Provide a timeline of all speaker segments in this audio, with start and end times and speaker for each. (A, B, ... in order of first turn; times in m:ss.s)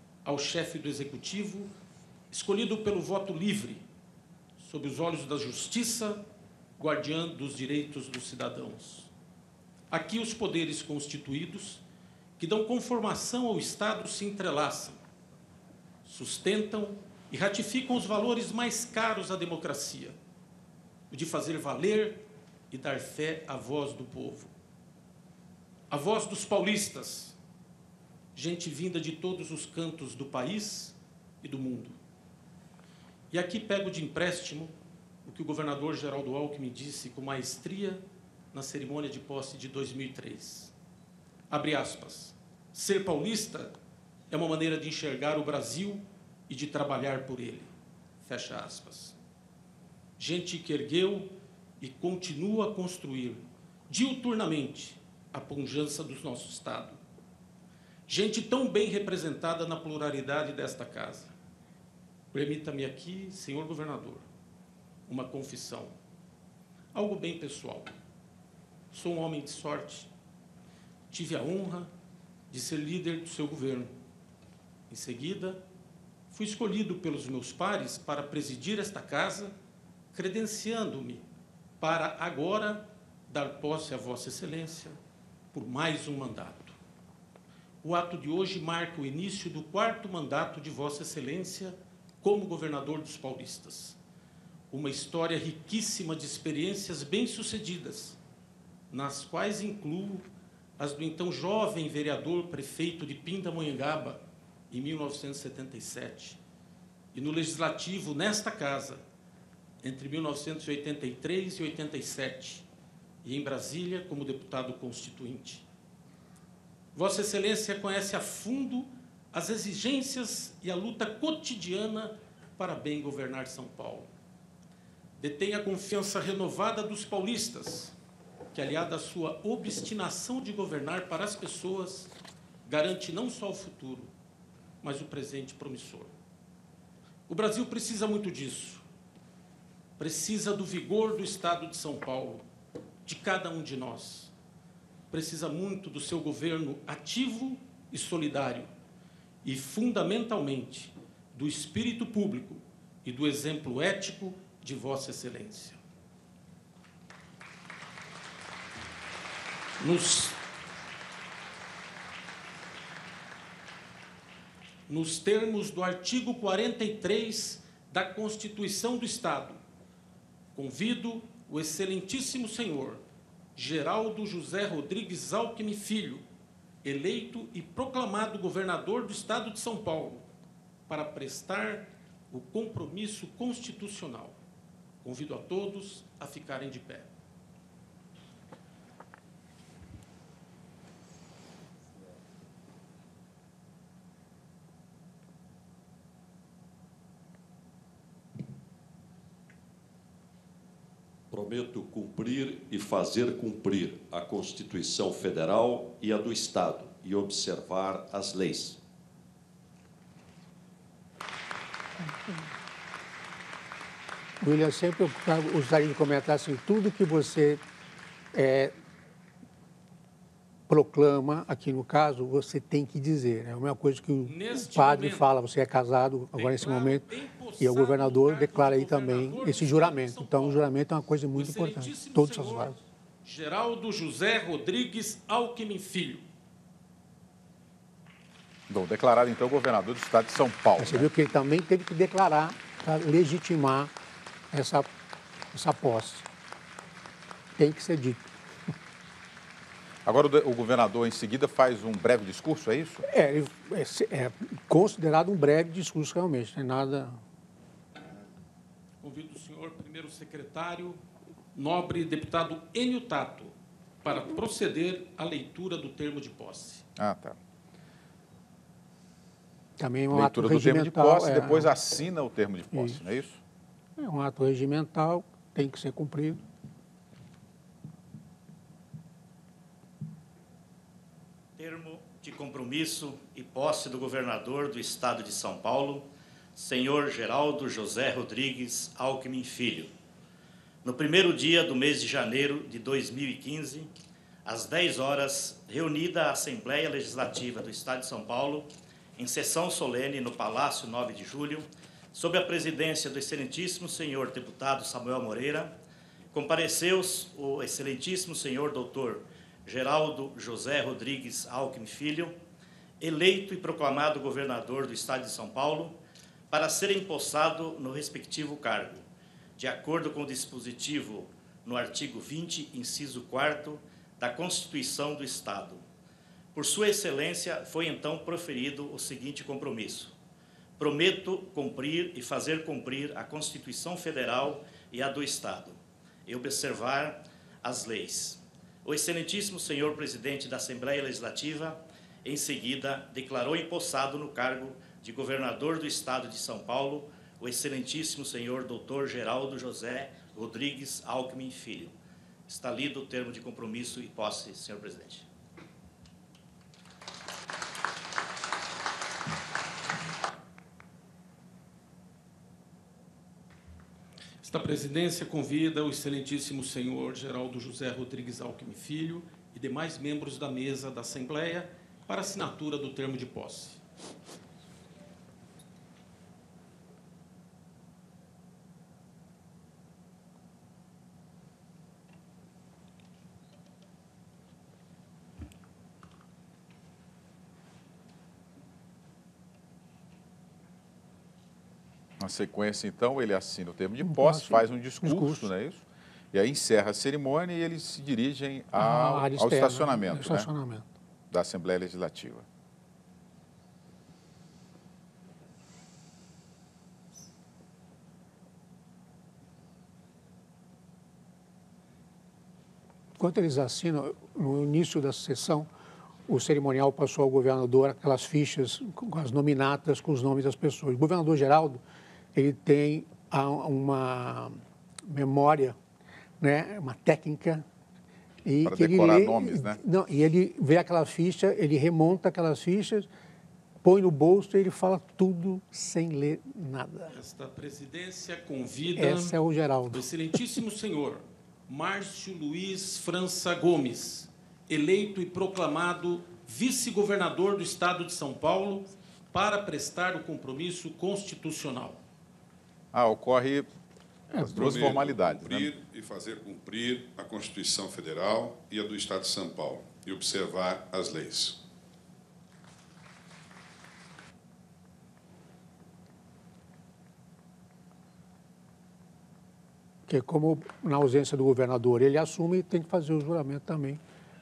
0:00.2-0:01.7 A
0:02.3-0:03.9 A
0:04.6-0:06.3 A
0:06.8-0:09.1 A
0:09.9-0:11.8 A
0:12.4-0:15.0 A
0:16.0-0:20.2 A
0:21.1-0:24.5 A
0:25.9-0:27.4 A
0:28.4-0:32.0 A
0:33.3-0:40.7 A
0:41.5-0:43.8 A
0:44.3-0:49.2 A
0:50.2-0:57.0 A
0:58.1-1:01.3 A
1:02.3-1:04.3 A
1:05.1-1:06.0 A
1:06.9-1:07.9 A
1:08.9-1:10.1 A
1:11.1-1:11.9 A
1:12.5-1:13.9 A
1:14.9-1:15.6 A
1:16.3-1:19.6 A
1:20.1-1:21.3 A
1:21.8-1:25.0 A
1:25.5-1:26.8 A
1:27.8-1:34.0 A
1:34.7-1:38.2 A
1:38.9-1:46.4 A
1:47.1-1:49.0 A
1:49.8-1:52.7 A
1:53.2-1:55.7 A
1:56.9-2:04.1 A
2:05.2-2:08.0 A
2:08.5-2:12.1 A
2:12.7-2:14.1 A
2:14.8-2:16.1 A
2:17.3-2:18.8 A
2:20.0-2:22.5 A
2:23.0-2:24.3 A
2:25.1-2:28.7 A
2:29.4-2:35.8 A
2:39.8-2:40.4 A
2:44.9-2:49.6 A
2:50.5-2:53.0 A
2:53.6-2:56.2 A
2:56.8-3:00.3 A
3:00.9-3:04.4 A
3:05.0-3:07.1 A
3:21.3-3:28.8 B
3:34.4-3:37.6 C
3:38.3-3:38.7 C
3:40.7-3:47.0 C
3:44.2-3:45.3 A
3:46.3-3:50.7 A
3:47.6-3:52.8 C
3:51.4-3:56.3 A
3:58.7-4:01.1 D
4:00.8-4:03.9 C
4:04.5-4:04.9 C
4:05.5-4:06.2 C
4:07.6-4:08.2 C
4:10.1-4:13.0 D
4:13.1-4:17.2 C
4:19.0-4:21.0 A
4:21.5-4:26.8 A
4:27.0-4:27.4 D
4:29.8-4:31.7 C
4:30.1-4:33.4 D
4:32.7-4:33.0 C
4:34.0-4:36.4 C
4:41.6-4:49.9 E
4:50.8-4:53.9 E
4:54.4-5:05.7 E
5:06.3-5:12.3 E
5:13.0-5:16.0 E
5:16.5-5:19.0 E
5:19.6-5:25.8 E
5:26.6-5:30.1 E
5:30.8-5:52.0 E
5:52.5-5:55.3 E
6:04.4-6:13.8 A
6:32.2-6:40.5 D
6:34.0-6:35.5 C
6:38.8-6:40.9 C
6:41.3-6:42.4 D
6:53.2-6:55.7 C
6:56.3-7:01.8 C
7:02.4-7:05.8 C
7:06.4-7:07.6 C
7:08.4-7:13.1 C
7:08.6-7:09.8 D
7:13.8-7:17.2 C
7:17.1-7:19.4 A
7:19.0-7:20.1 C
7:19.9-7:32.0 A
7:32.9-7:33.7 D
7:34.4-7:35.7 D
7:34.5-7:41.6 F
7:50.1-7:54.0 C